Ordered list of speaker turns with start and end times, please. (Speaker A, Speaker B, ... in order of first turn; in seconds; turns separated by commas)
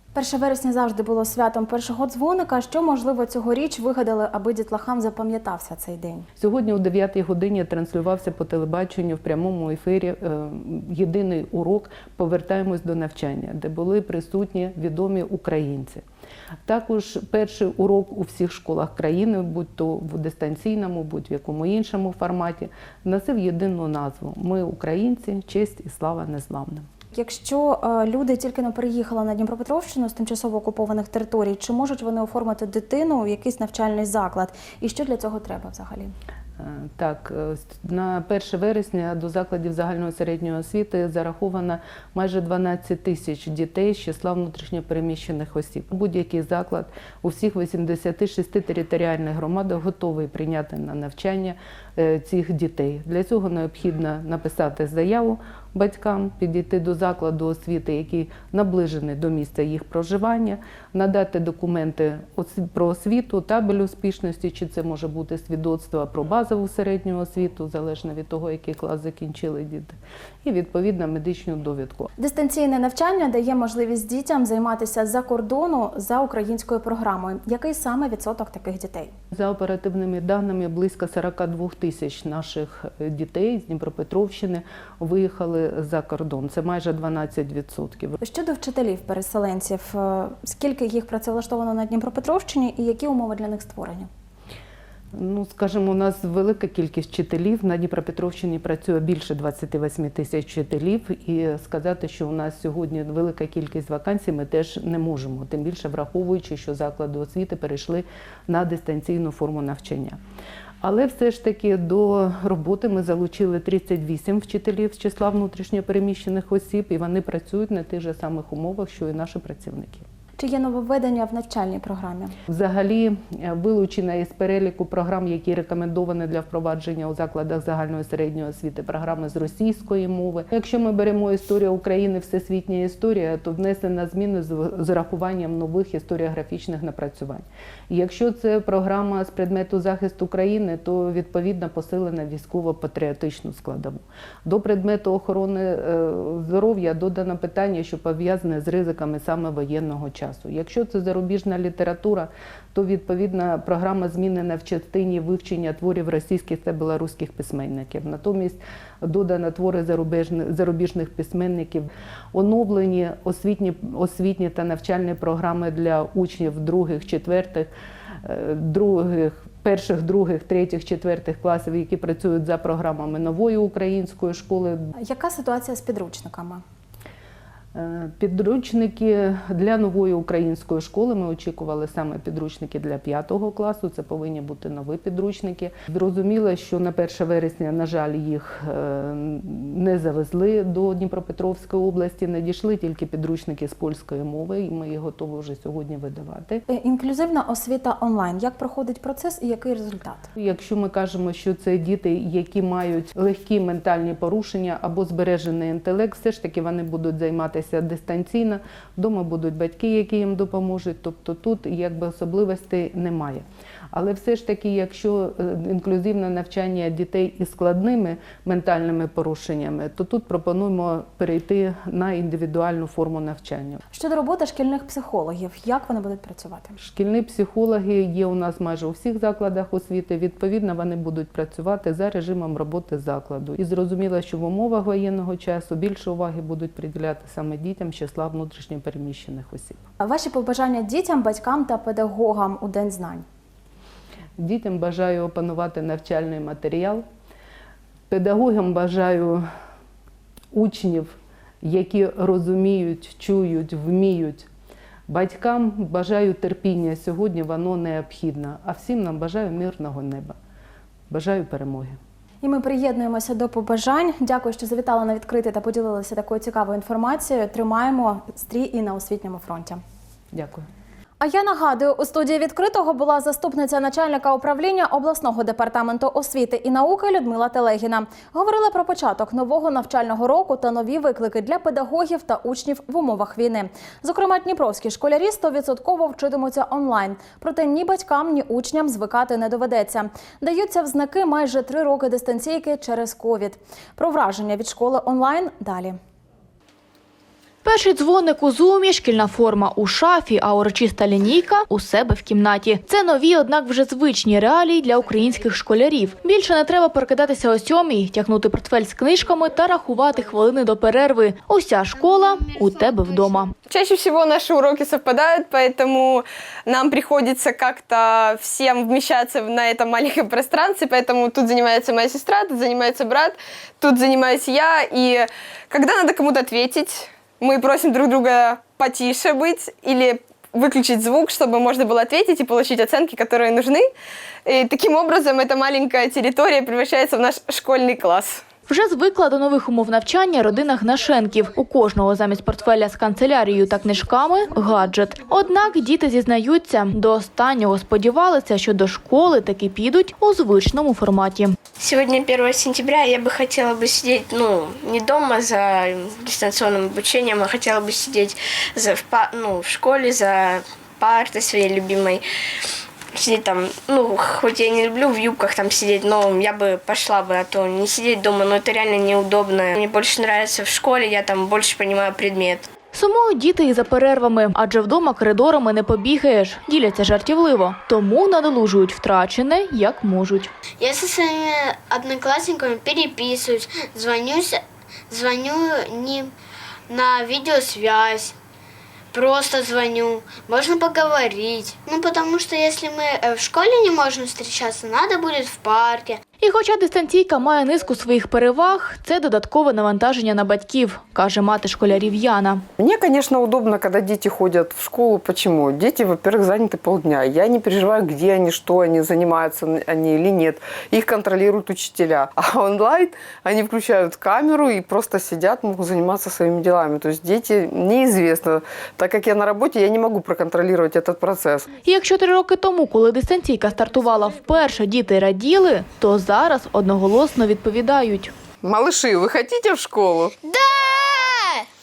Speaker A: 0.1-6.3, Speaker B: 6.4-16.0, Speaker B: 16.6-26.9, Speaker A: 27.1-36.1, Speaker B: 36.6-72.1, Speaker A: 72.2-79.1, Speaker B: 79.3-88.2, Speaker A: 88.2-94.1, Speaker B: 95.1-110.2, Speaker B: 110.8-120.0, Speaker A: 120.4-122.3, Speaker B: 122.5-167.7, Speaker B: 168.2-174.9, Speaker A: 175.0-176.6, Speaker B: 177.7-196.6, Speaker A: 196.7-200.3, Speaker B: 200.3-223.8, Speaker A: 223.9-226.8, Speaker B: 226.8-239.8, Speaker A: 240.0-243.2, Speaker B: 244.4-247.0, Speaker B: 248.1-249.4, Speaker B: 250.5-254.5, Speaker B: 255.1-260.4, Speaker B: 261.1-262.0, Speaker A: 262.4-269.8, Speaker B: 270.3-270.7, Speaker A: 271.2-296.0, Speaker C: 297.6-313.5, Speaker D: 313.6-333.9, Speaker D: 334.4-338.4, Speaker C: 338.7-351.6, Speaker E: 351.8-362.2, Speaker E: 363.1-372.7, Speaker C: 372.9-380.5, Speaker F: 380.8-386.3, Speaker F: 386.9-388.3, Speaker F: 389.1-396.2, Speaker C: 396.4-402.6, Speaker G: 402.8-421.7, Speaker C: 421.8-428.3, Speaker G: 428.6-430.3, Speaker F: 430.4-431.6